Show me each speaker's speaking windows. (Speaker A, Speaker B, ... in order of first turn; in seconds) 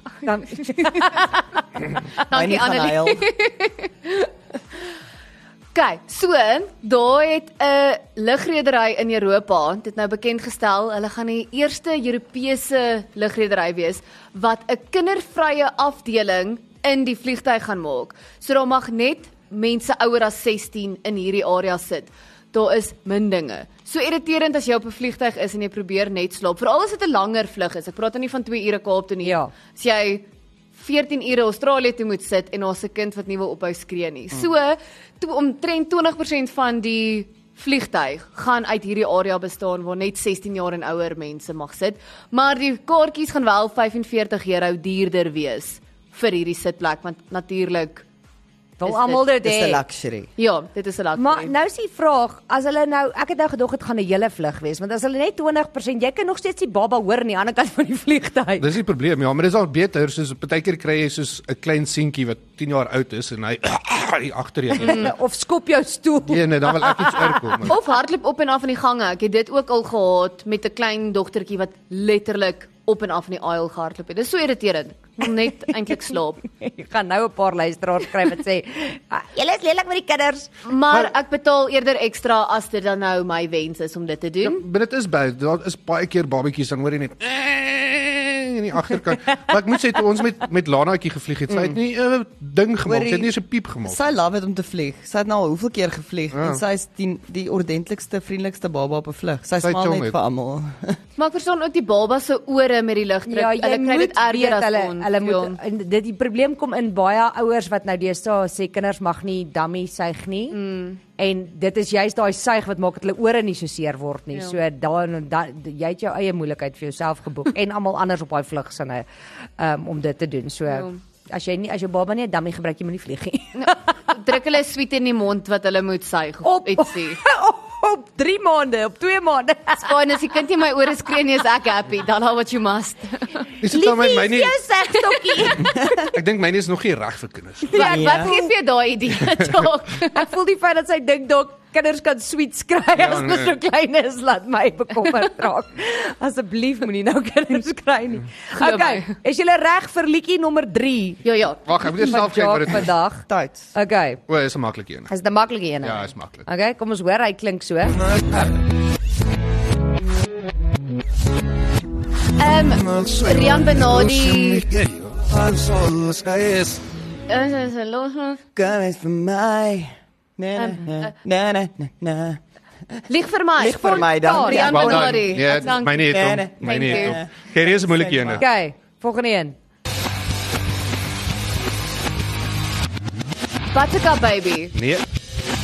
Speaker A: 0.2-1.2, 2.3-4.3, 5.7-48.0, 48.9-49.2, 50.4-51.5, 64.8-65.1, 67.6-76.4, 80.7-84.6, 101.2-105.6, 110.5-111.0, 120.7-121.0, 123.6-127.2, 129.8-133.5, 137.7-140.2, 148.6-149.1, 151.2-151.6, 162.4-164.7, 167.3-168.4, 170.6-171.1, 173.1-177.2, 183.7-184.8
Speaker B: 0.2-1.4, 29.2-29.5, 48.8-49.8, 51.2-58.7, 64.7-67.7, 76.4-80.5, 103.3-110.6, 111.2-119.1, 119.6-124.2, 126.4-130.0, 133.7-135.9, 137.7-138.5, 140.1-151.2, 151.9-154.2, 155.1-158.1, 173.8-174.8, 178.4-179.6
Speaker C: 2.3-3.3, 49.3-50.3, 91.5-91.8, 92.9-93.3, 93.8-101.0, 135.8-136.1, 137.8-138.3, 153.3-153.7, 168.6-172.4, 173.6-178.4
Speaker D: 58.6-65.1, 66.3-67.8, 84.4-94.0, 96.3-96.6, 99.6-100.1, 133.6-134.6, 136.0-137.8, 143.0-143.6, 151.7-152.9, 154.3-155.1, 155.8-156.4, 164.0-166.8, 174.6-178.5, 184.7-185.1